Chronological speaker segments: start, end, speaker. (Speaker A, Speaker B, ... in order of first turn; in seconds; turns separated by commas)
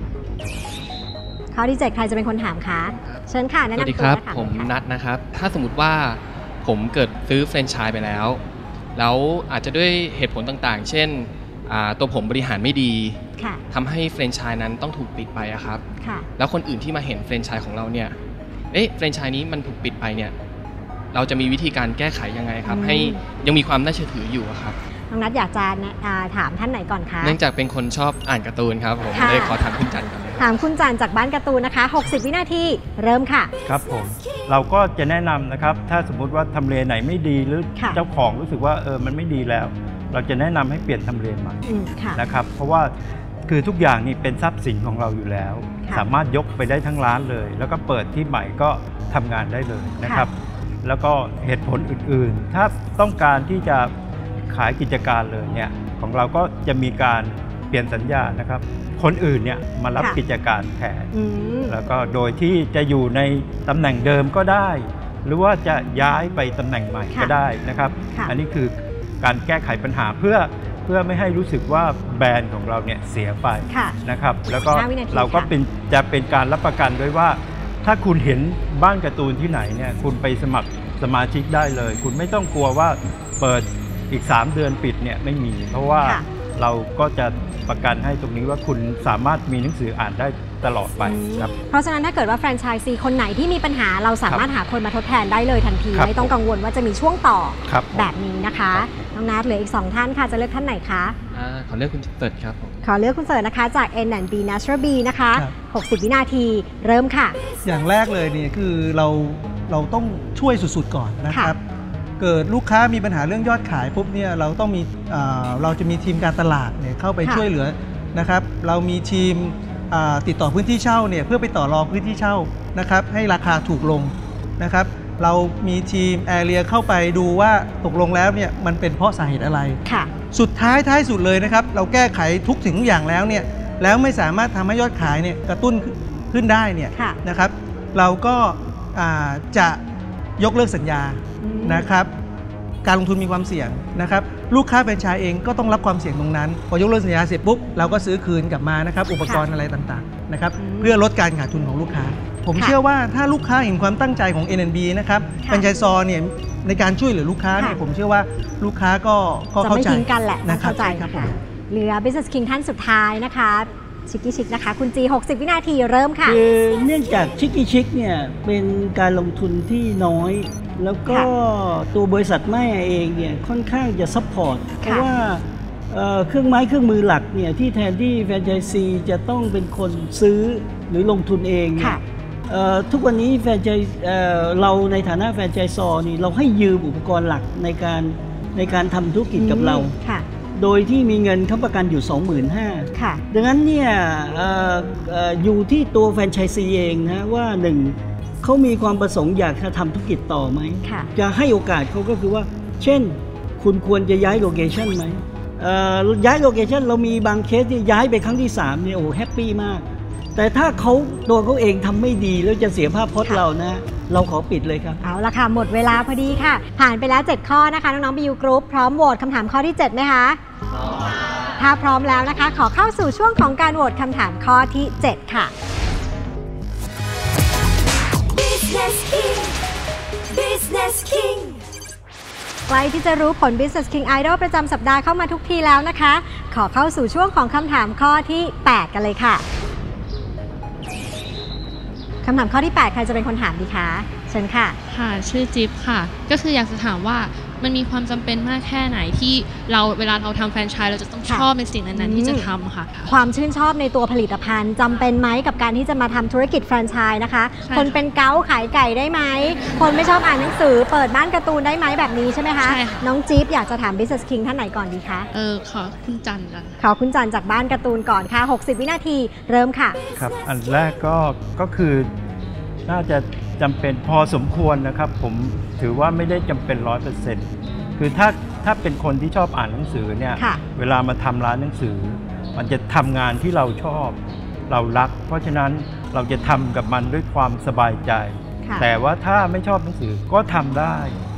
Speaker A: 1.5-4.7, Speaker B: 3.8-8.4, Speaker B: 8.9-13.2, Speaker B: 13.7-15.8, Speaker A: 16.0-16.3, Speaker B: 16.4-18.2, Speaker B: 18.7-20.3, Speaker B: 21.1-24.8, Speaker A: 22.7-23.2, Speaker A: 25.1-27.3, Speaker B: 27.2-30.5, Speaker A: 29.1-29.6, Speaker A: 30.4-33.5, Speaker C: 33.6-41.6, Speaker A: 37.8-38.0, Speaker A: 41.6-42.2, Speaker C: 42.1-42.9, Speaker C: 43.5-50.3, Speaker C: 50.8-53.9, Speaker C: 54.5-61.1, Speaker A: 61.1-61.7, Speaker C: 61.7-91.5, Speaker A: 73.7-74.0, Speaker A: 74.6-75.5, Speaker A: 91.0-101.1, Speaker C: 95.9-96.3, Speaker C: 97.7-98.1, Speaker C: 98.7-99.0, Speaker B: 101.3-102.7, Speaker A: 102.8-107.4, Speaker D: 107.6-111.6, Speaker A: 111.3-111.5, Speaker D: 112.2-129.8, Speaker A: 129.9-130.1, Speaker D: 130.3-139.8, Speaker D: 140.4-142.1, Speaker A: 141.4-141.9, Speaker D: 142.8-161.4, Speaker A: 150.6-151.0, Speaker A: 159.6-166.4, Speaker E: 166.2-189.9, Speaker A: 174.8-175.1, Speaker A: 181.8-182.0, Speaker A: 189.4-190.2, Speaker E: 190.6-215.0, Speaker A: 192.9-193.2, Speaker A: 200.8-201.1, Speaker A: 215.0-220.4, Speaker A: 221.6-225.5, Speaker A: 232.7-239.4, Speaker A: 242.2-244.8, Speaker F: 244.9-253.1, Speaker A: 251.2-252.5, Speaker A: 253.1-265.3, Speaker F: 257.6-258.0, Speaker F: 262.6-263.1, Speaker F: 265.3-266.8, Speaker A: 266.8-270.0, Speaker C: 270.2-272.1, Speaker C: 272.9-284.2, Speaker C: 284.7-291.2, Speaker A: 288.6-288.9